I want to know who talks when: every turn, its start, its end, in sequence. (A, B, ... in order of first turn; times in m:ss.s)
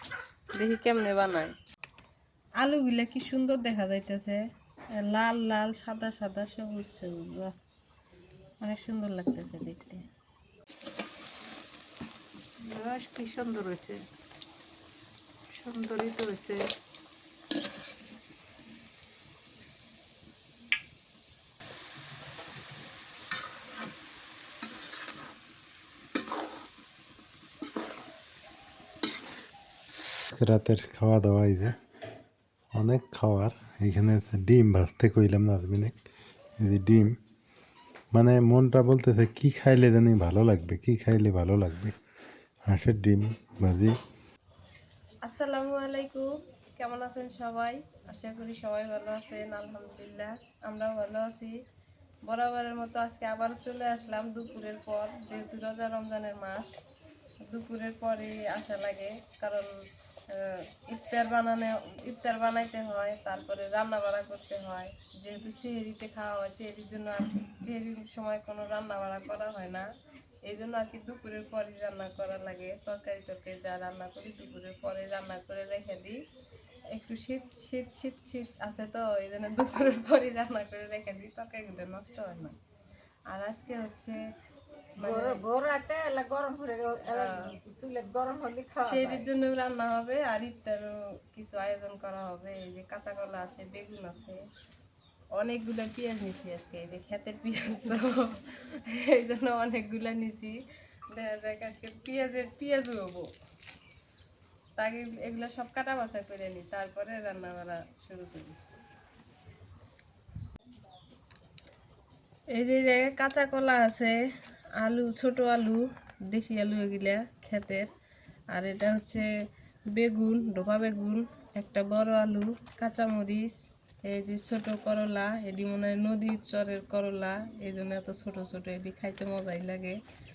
0:00.6-0:01.5 A
0:02.6-0:04.4 A
0:05.0-0:07.5 A
0:08.6-0:10.0 A
0:12.7-0:14.0 B
0:15.5-0:16.6 B
0:30.3-0:31.8 C
0:32.7-0:35.9 C
0:36.6-0:37.2 C
0:38.1-0:41.9 C
0:42.7-0:44.0 C
0:45.2-0:51.5 A
0:52.2-0:56.7 A
0:57.4-0:59.7 A
1:00.3-1:09.9 A
1:10.4-1:16.2 A
1:16.9-1:22.6 A
1:23.3-1:24.2 A
1:25.0-1:25.4 A
1:25.0-1:29.2 B
1:27.1-1:27.5 A
1:28.8-1:34.4 A
1:35.4-1:40.6 A
1:41.1-1:43.3 A
1:44.8-1:48.5 A
1:52.5-1:54.2 A
1:54.8-1:57.9 A
1:58.5-1:59.3 A
1:59.9-2:10.0 A